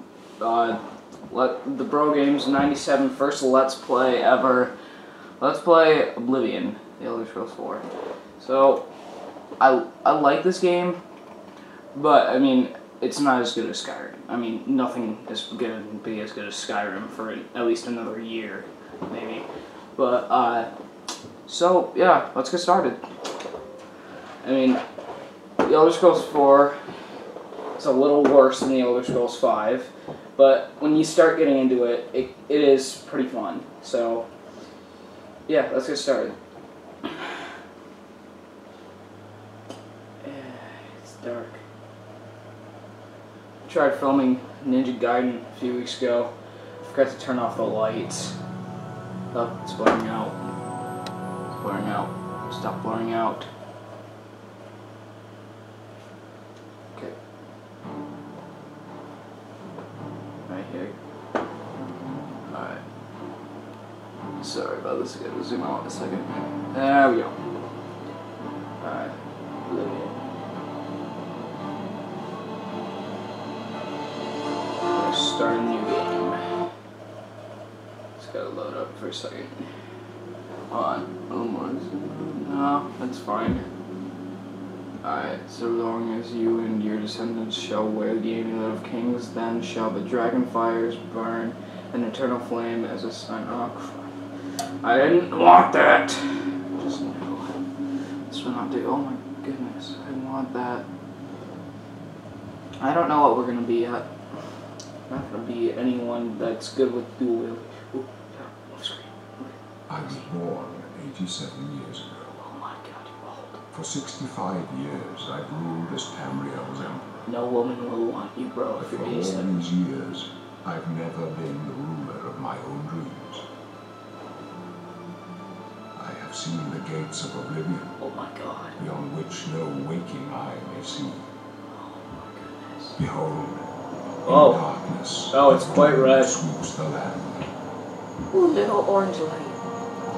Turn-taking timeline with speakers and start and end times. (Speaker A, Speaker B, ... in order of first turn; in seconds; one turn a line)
Speaker A: 0.4-4.7
Speaker A: 5.4-7.9
Speaker A: 8.4-8.8
Speaker A: 9.6-11.0
Speaker A: 11.9-20.7
Speaker A: 21.4-23.0
Speaker A: 24.4-24.8
Speaker A: 25.6-26.8
Speaker A: 27.8-34.3
Speaker A: 35.5-36.3
Speaker A: 37.0-37.3
Speaker A: 40.2-41.6
Speaker A: 43.6-48.4
Speaker A: 49.3-50.4
Speaker A: 51.5-53.5
Speaker A: 60.5-60.9
Speaker A: 62.5-62.8
Speaker A: 64.4-67.3
Speaker A: 68.8-70.2
Speaker A: 74.9-76.5
Speaker A: 78.2-79.7
Speaker A: 80.7-83.7
Speaker A: 85.0-94.1
Speaker A: 94.8-97.6
Speaker A: 98.3-100.8
Speaker A: 102.8-104.1
Speaker A: 105.1-110.2
Speaker B: 109.9-112.4
Speaker A: 112.3-113.6
Speaker B: 113.7-117.1
Speaker A: 117.2-119.5
Speaker B: 118.8-123.5
Speaker B: 126.0-128.0
Speaker A: 128.0-128.8
Speaker B: 128.8-131.3
Speaker A: 131.7-133.0
Speaker B: 133.0-133.7
Speaker B: 134.2-137.5
Speaker A: 134.3-134.6
Speaker A: 135.3-136.4
Speaker A: 138.3-139.6